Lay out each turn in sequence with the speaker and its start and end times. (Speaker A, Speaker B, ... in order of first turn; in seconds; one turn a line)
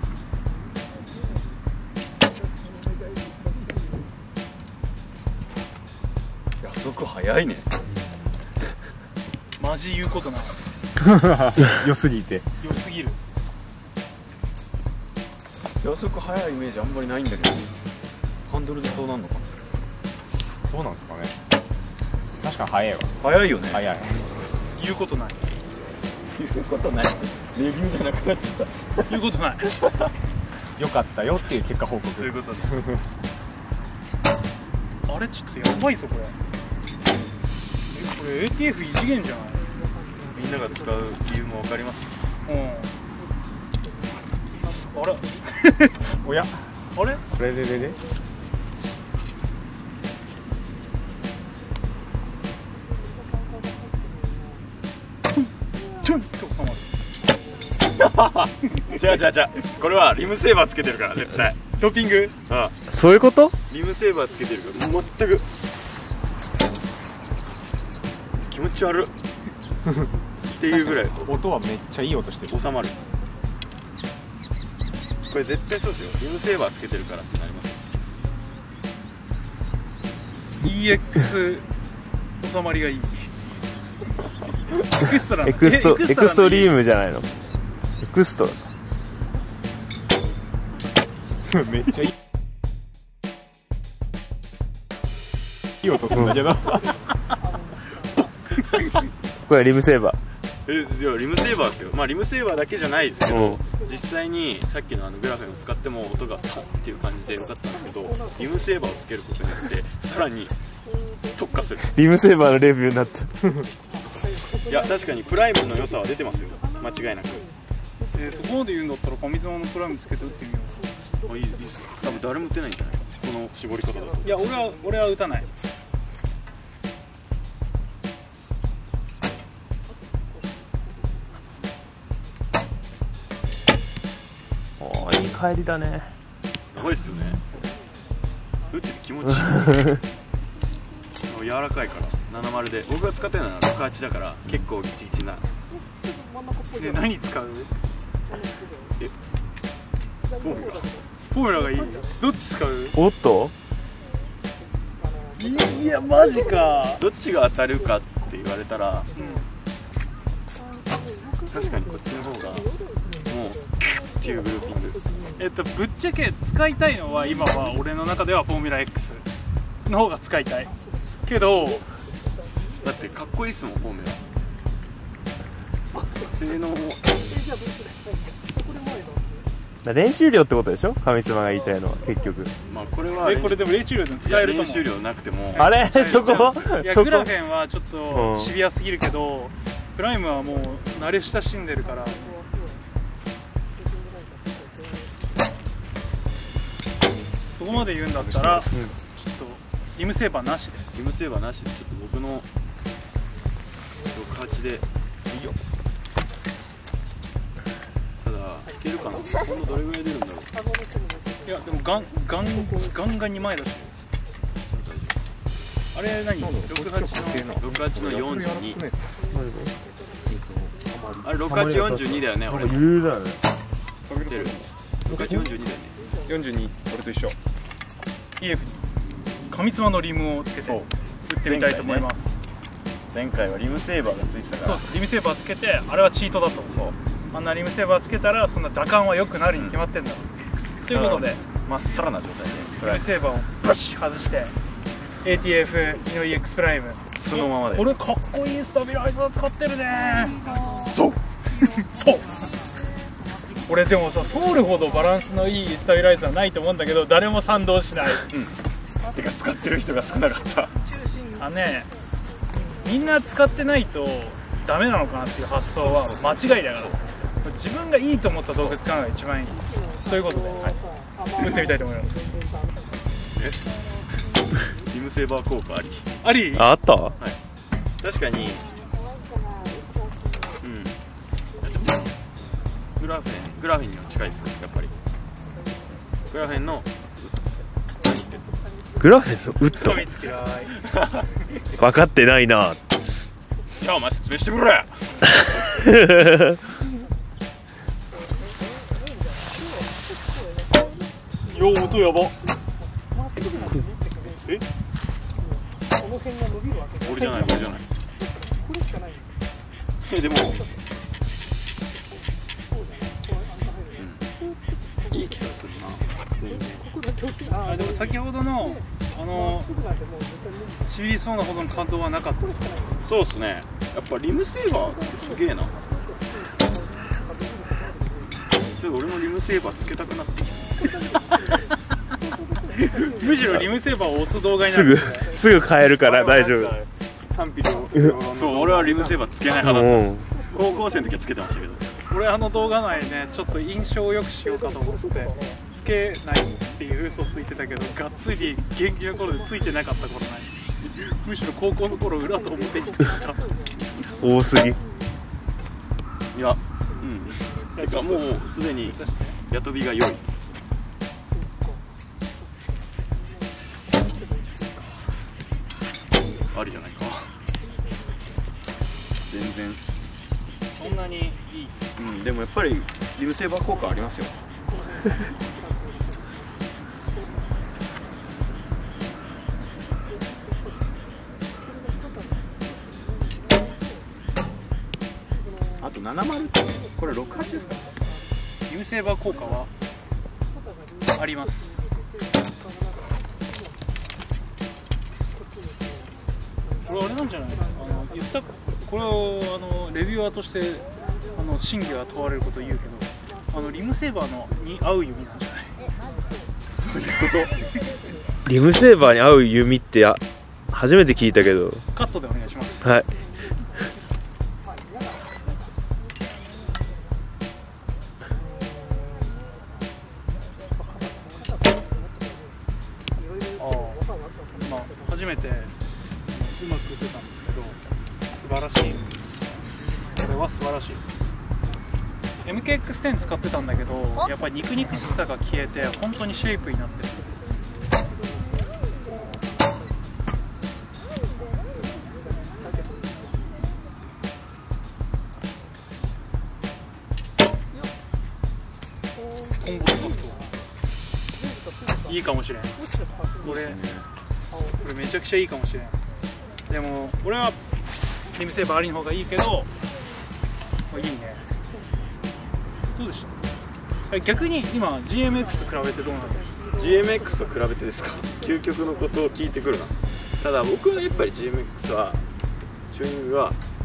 Speaker A: 6.6-7.7
Speaker B: 9.6-10.6
Speaker C: 11.0-12.4
Speaker B: 12.6-13.2
Speaker A: 15.8-17.7
Speaker A: 18.5-19.5
Speaker C: 20.7-21.3
Speaker C: 22.4-23.1
Speaker A: 23.2-23.8
Speaker C: 23.7-24.2
Speaker B: 24.8-25.4
Speaker A: 26.3-29.1
Speaker B: 29.1-29.6
Speaker A: 29.7-30.1
Speaker C: 30.8-33.0
Speaker A: 32.1-32.8
Speaker B: 35.1-36.4
Speaker B: 37.9-39.6
Speaker A: 40.3-42.1
Speaker B: 42.4-42.9
Speaker B: 44.8-45.9
Speaker C: 46.1-46.7
Speaker B: 46.9-47.2
Speaker C: 47.3-48.0
Speaker B: 56.0-56.9
Speaker A: 58.0-61.6
Speaker B: 61.8-62.3
Speaker A: 62.5-62.7
Speaker D: 62.9-63.5
Speaker A: 63.7-65.5
Speaker A: 68.5-69.1
Speaker C: 69.8-70.1
Speaker A: 70.4-71.4
Speaker C: 70.6-72.6
Speaker A: 72.5-73.0
Speaker A: 75.3-77.8
Speaker B: 80.6-81.7
Speaker B: 82.4-83.3
Speaker B: 84.9-86.7
Speaker D: 85.4-87.3
Speaker D: 88.0-88.6
Speaker C: 91.5-92.1
Speaker C: 95.8-96.9
Speaker B: 98.2-99.0
Speaker D: 99.4-100.2
Speaker A: 100.7-110.5
Speaker D: 103.3-103.6
Speaker A: 111.3-112.0
Speaker D: 111.8-113.5
Speaker A: 114.7-117.4
Speaker B: 118.1-120.8
Speaker A: 121.2-124.2
Speaker B: 124.2-125.5
Speaker D: 134.8-136.1
Speaker A: 136.7-137.4
Speaker A: 138.7-139.9
Speaker A: 141.3-145.4
Speaker B: 146.8-147.7
Speaker A: 150.4-151.0
Speaker B: 151.3-153.0
Speaker D: 152.9-153.5
Speaker B: 155.4-157.0
Speaker A: 157.0-159.1
Speaker B: 159.1-159.4
Speaker A: 161.5-165.0
Speaker B: 165.4-169.2
Speaker B: 169.8-170.7
Speaker B: 171.2-171.8
Speaker A: 172.8-174.2
Speaker A: 176.2-177.2
Speaker D: 179.8-182.5
Speaker A: 182.6-183.7
Speaker B: 183.2-184.9
Speaker A: 184.2-186.5
Speaker B: 185.5-192.3
Speaker D: 185.6-187.3
Speaker D: 188.1-188.5
Speaker B: 197.5-200.9
Speaker D: 198.2-198.9
Speaker A: 200.9-202.4
Speaker A: 204.1-204.8
Speaker C: 205.3-205.6
Speaker A: 208.2-210.5
Speaker B: 211.4-213.9
Speaker A: 214.7-215.2
Speaker B: 215.9-217.5
Speaker C: 216.4-219.2
Speaker A: 217.3-218.8
Speaker D: 219.3-219.7
Speaker C: 220.3-221.3
Speaker A: 221.2-222.8
Speaker D: 221.4-223.4
Speaker C: 224.1-225.4
Speaker A: 224.3-226.0
Speaker C: 226.2-227.3
Speaker B: 228.4-228.8
Speaker B: 229.5-232.3
Speaker A: 230.6-230.9
Speaker A: 231.4-232.1
Speaker A: 233.1-234.8
Speaker B: 234.6-236.8
Speaker B: 237.3-240.3
Speaker B: 240.8-241.4
Speaker A: 240.9-243.0
Speaker B: 242.8-244.5
Speaker B: 245.2-250.5
Speaker A: 247.2-247.9
Speaker A: 250.8-251.2
Speaker B: 251.6-252.4
Speaker B: 253.7-258.3
Speaker A: 258.3-258.6
Speaker A: 259.1-260.7
Speaker B: 261.4-261.9
Speaker B: 262.8-270.8
Speaker A: 265.8-267.0
Speaker B: 271.4-272.2
Speaker A: 273.3-273.6
Speaker A: 274.7-276.1
Speaker B: 276.2-276.7
Speaker D: 276.5-277.1
Speaker A: 278.0-278.7
Speaker A: 280.6-280.9
Speaker A: 281.6-282.0
Speaker A: 283.0-284.9
Speaker A: 286.3-286.9
Speaker A: 288.0-288.5
Speaker D: 289.0-290.0
Speaker B: 289.8-290.8
Speaker A: 290.8-291.2
Speaker D: 291.8-292.8
Speaker A: 293.8-295.4
Speaker D: 295.8-296.4
Speaker B: 301.5-302.3
Speaker A: 303.4-303.8
Speaker B: 304.3-304.6
Speaker A: 307.0-307.9
Speaker A: 310.0-310.6
Speaker A: 313.9-314.2
Speaker A: 315.1-316.9
Speaker B: 317.6-319.8
Speaker B: 320.9-322.5
Speaker A: 323.0-325.8
Speaker A: 328.8-330.8
Speaker B: 333.1-335.3
Speaker D: 334.6-336.8
Speaker C: 336.0-339.2
Speaker A: 338.3-341.9
Speaker D: 339.6-340.3
Speaker B: 342.1-353.4
Speaker D: 354.1-354.8
Speaker A: 356.3-359.0
Speaker B: 357.8-359.4
Speaker A: 359.5-360.2
Speaker A: 366.5-367.3
Speaker A: 369.3-369.8
Speaker B: 370.8-371.9
Speaker A: 371.9-374.4
Speaker A: 385.8-388.0
Speaker B: 388.7-389.7
Speaker B: 391.2-391.8
Speaker B: 396.9-405.7
Speaker A: 406.7-407.6
Speaker D: 408.4-410.2
Speaker D: 410.7-411.8
Speaker B: 411.9-412.9
Speaker D: 412.8-413.1
Speaker B: 423.6-424.0
Speaker B: 424.6-425.7
Speaker B: 426.3-427.8
Speaker B: 428.3-429.1
Speaker B: 430.1-431.0
Speaker B: 432.4-437.3
Speaker B: 449.6-450.4
Speaker B: 452.1-452.8
Speaker A: 453.4-454.1
Speaker B: 453.4-453.8
Speaker B: 454.8-455.9
Speaker B: 456.7-457.6
Speaker B: 458.3-459.7
Speaker B: 460.9-461.4
Speaker B: 462.9-463.3
Speaker B: 464.1-466.5
Speaker A: 466.7-472.2
Speaker A: 472.9-473.6